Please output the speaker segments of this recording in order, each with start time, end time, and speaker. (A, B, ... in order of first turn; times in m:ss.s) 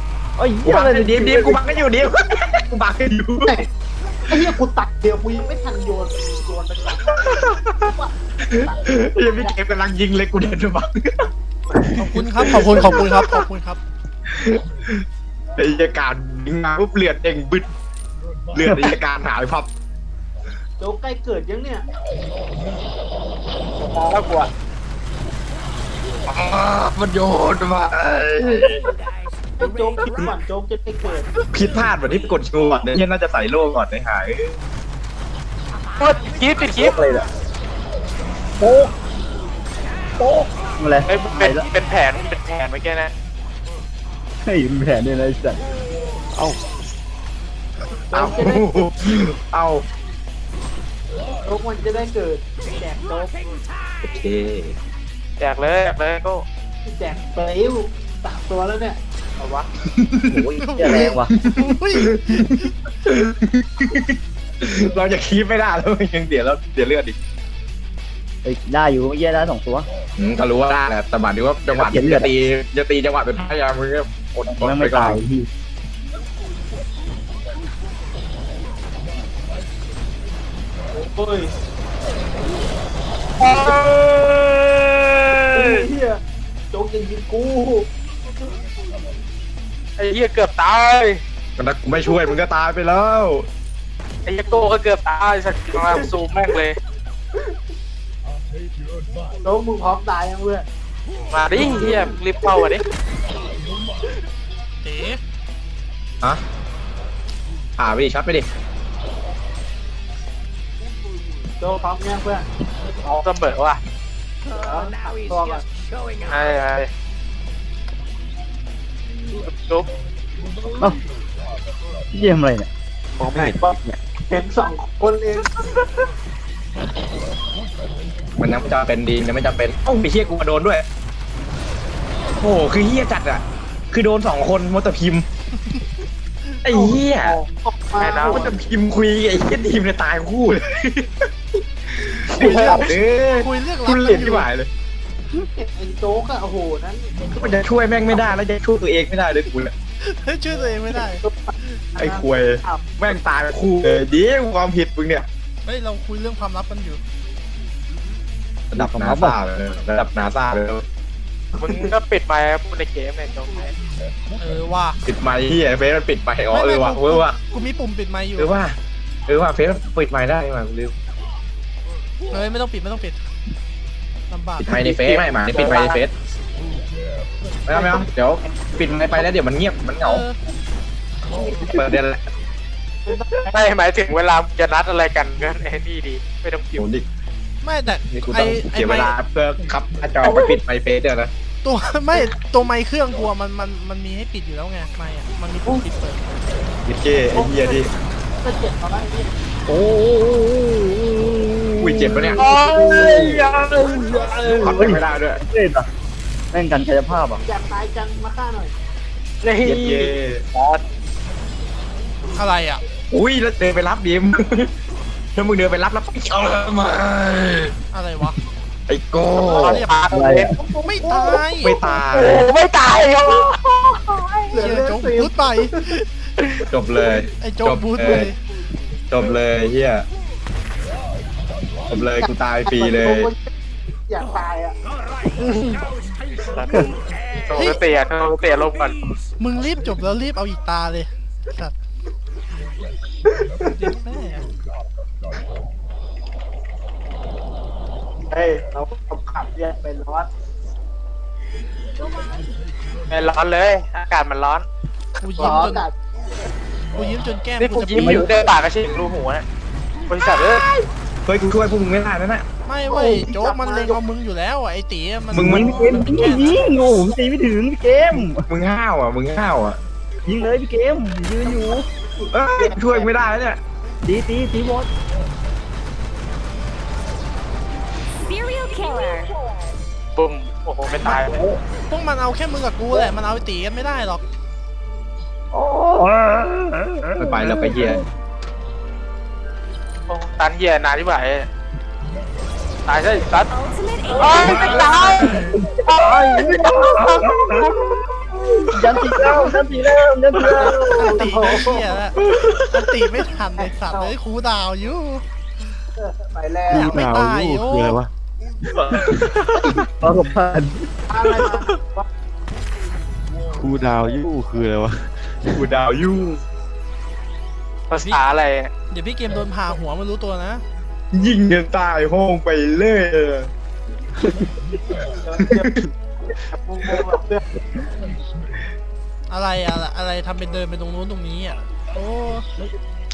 0:00.4-0:01.6 A
0:00.6-0:03.5 B
0:04.3-0:09.6 C
0:07.1-0:07.8 B
0:08.5-0:13.4 B
0:11.9-0:13.8 D
0:14.3-0:15.0 B
0:15.6-0:17.7 B
0:18.5-0:19.7 B
0:18.6-0:18.9 A
0:20.8-0:21.9 C
0:23.8-0:24.5 E
0:26.3-0:28.8 B
0:29.6-0:31.4 C
0:31.5-0:34.5 B
0:36.0-0:37.0 E
0:36.8-0:37.2 A
0:38.6-0:38.9 A
0:40.2-0:41.6 A
0:41.1-0:43.1 E
0:44.4-0:45.6 A
0:48.1-0:48.9 C
0:48.1-0:49.8 B
0:51.4-0:53.3 C
0:54.0-0:54.8 B
0:55.4-0:56.4 E
0:56.9-0:59.0 C
0:59.4-0:59.6 E
0:59.9-1:00.4 B
1:00.3-1:01.3 A
1:00.6-1:02.7 D
1:01.3-1:07.2 B
1:08.4-1:09.9 A
1:10.2-1:15.2 B
1:11.7-1:12.3 A
1:14.5-1:15.5 A
1:20.9-1:21.5 C
1:23.4-1:23.8 E
1:23.7-1:24.3 C
1:23.7-1:25.8 B
1:25.5-1:26.2 C
1:26.7-1:27.9 C
1:30.0-1:31.2 E
1:31.6-1:33.5 B
1:34.2-1:36.8 E
1:35.7-1:36.1 C
1:39.4-1:40.6 C
1:41.3-1:42.8 E
1:41.5-1:42.8 C
1:44.8-1:45.2 D
1:47.8-1:48.5 B
1:51.6-1:52.4 C
1:53.0-1:53.8 E
1:54.5-1:55.6 C
1:56.3-1:56.9 E
1:59.6-1:59.9 E
2:02.1-2:02.7 A
2:03.2-2:04.0 F
2:03.3-2:03.7 C
2:04.3-2:05.6 C
2:08.4-2:10.8 B
2:12.4-2:15.2 B
2:16.6-2:17.4 B
2:16.7-2:18.5 C
2:18.0-2:18.4 E
2:18.2-2:21.3 B
2:21.9-2:24.7 B
2:22.4-2:22.8 E
2:22.4-2:22.9 C
2:23.4-2:24.5 D
2:25.3-2:27.6 C
2:27.4-2:29.7 B
2:30.0-2:31.2 D
2:31.0-2:32.9 C
2:32.0-2:35.2 B
2:35.6-2:37.0 D
2:38.7-2:40.8 B
2:38.8-2:39.4 A
2:41.6-2:43.7 E
2:44.4-2:45.0 D
2:45.0-2:47.4 B
2:46.5-2:48.5 D
2:48.4-2:50.9 B
2:52.3-2:53.2 D
2:54.3-2:54.7 D
2:54.6-2:56.1 B
2:54.7-2:56.0 E
2:57.6-3:00.2 B
2:57.7-2:58.1 C
3:00.0-3:00.4 D
3:01.3-3:02.3 B
3:03.0-3:03.5 C
3:03.5-3:06.8 E
3:06.8-3:07.0 B
3:07.6-3:09.1 D
3:08.1-3:11.3 B
3:10.2-3:10.6 C
3:11.6-3:16.2 D
3:16.8-3:17.9 B
3:17.3-3:17.9 C
3:18.4-3:19.3 C
3:19.7-3:25.9 A
3:21.8-3:22.4 B
3:22.4-3:23.6 E
3:23.0-3:23.3 B
3:24.5-3:25.4 B
3:26.5-3:27.4 A
3:27.4-3:28.7 C
3:29.4-3:30.8 E
3:29.6-3:30.4 B
3:32.4-3:32.8 D
3:33.1-3:34.7 B
3:35.4-3:37.7 B
3:37.9-3:38.4 D
3:38.9-3:39.9 B
3:39.4-3:40.5 E
3:39.5-3:39.9 D
3:40.1-3:40.6 A
3:40.7-3:41.8 D
3:41.0-3:41.4 C
3:41.6-3:42.5 B
3:42.0-3:44.5 E
3:44.5-3:45.7 C
3:44.5-3:46.1 D
3:46.7-3:48.3 B
3:47.4-3:48.4 D
3:49.1-3:50.0 B
3:51.9-3:53.3 B
3:52.2-3:53.4 C
3:54.1-3:54.8 C
3:56.5-3:56.9 E
3:57.4-3:58.9 E
3:57.5-3:57.8 D
3:59.4-4:01.7 D
4:03.4-4:03.7 C
4:03.8-4:04.4 D
4:08.3-4:10.3 C
4:12.0-4:12.4 G
4:13.1-4:14.6 E
4:15.2-4:15.8 D
4:15.4-4:15.9 C
4:16.9-4:18.5 D
4:17.6-4:19.4 E
4:18.0-4:18.3 A
4:20.1-4:20.7 E
4:20.4-4:20.8 C
4:21.2-4:22.4 B
4:22.6-4:26.6 D
4:22.9-4:24.0 C
4:25.3-4:26.2 B
4:25.3-4:28.4 A
4:28.2-4:29.8 B
4:30.2-4:31.8 A
4:31.4-4:33.1 C
4:32.3-4:33.6 B
4:34.0-4:34.9 A
4:38.2-4:39.3 G
4:40.2-4:41.4 E
4:41.0-4:41.6 A
4:41.9-4:44.2 D
4:45.5-4:48.0 A
4:47.2-4:48.0 B
4:50.1-4:51.5 E
4:52.8-4:53.5 E
4:53.5-4:55.4 G
4:54.2-4:57.6 E
4:54.4-4:55.5 B
4:55.5-4:57.9 A
4:58.6-5:01.3 A
4:58.8-4:59.6 B
5:00.3-5:02.0 C
5:00.9-5:05.2 D
5:02.2-5:02.7 B
5:03.6-5:04.1 C
5:06.0-5:07.0 C
5:06.7-5:08.0 D
5:06.7-5:08.1 F
5:08.6-5:09.8 B
5:10.0-5:10.9 A
5:11.1-5:12.1 C
5:13.5-5:15.7 F
5:15.6-5:16.4 B
5:17.9-5:18.7 E
5:18.9-5:20.6 D
5:21.1-5:23.5 B
5:25.0-5:25.8 C
5:25.4-5:25.8 B
5:26.4-5:27.4 C
5:29.3-5:32.4 D